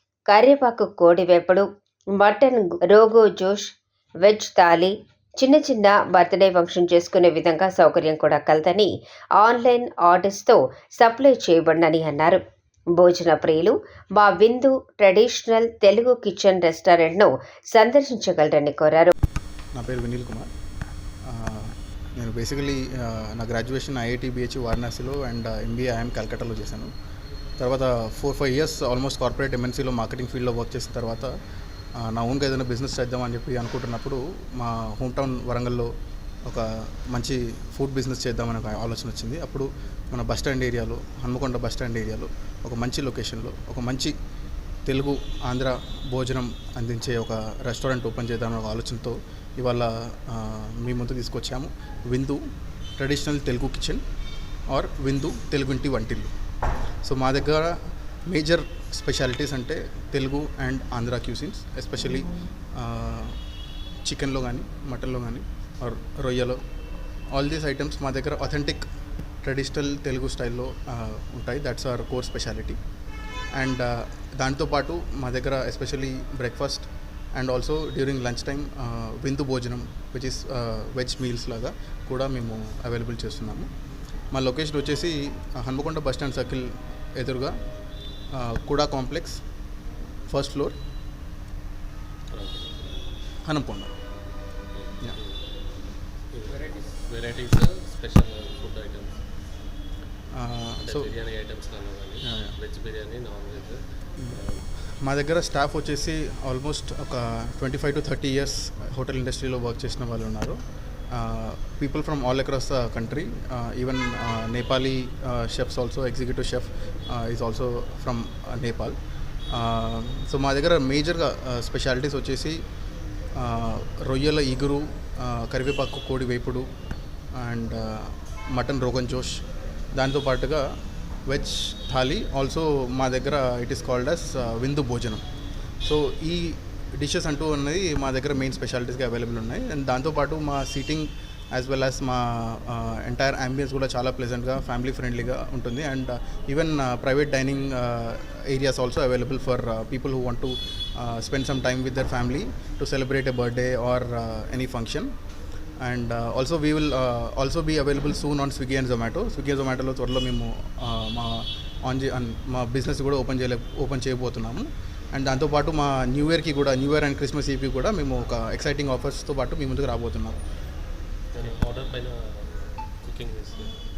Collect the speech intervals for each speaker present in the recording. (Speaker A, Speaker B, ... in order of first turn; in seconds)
Speaker A: 0.3-1.6, 2.2-3.7, 4.2-12.4, 13.0-19.1
Speaker B: 19.7-20.5, 21.2-26.9, 27.6-31.3, 31.9-35.9, 36.4-44.1, 44.9-52.4, 53.0-54.0, 54.7-56.3, 57.0-63.4, 64.0-66.6, 67.3-68.8, 69.4-72.8, 73.5-83.7, 84.3-87.5, 88.3-89.4, 90.3-90.7, 93.4-93.9, 100.3-101.1, 102.2-102.5, 104.2-110.6, 111.1-119.0, 119.5-122.6, 123.3-126.7, 127.3-130.7, 131.2-135.2, 135.8-155.1, 155.8-170.4
Speaker C: 92.3-93.1, 94.7-99.2, 100.8-104.7, 171.3-173.8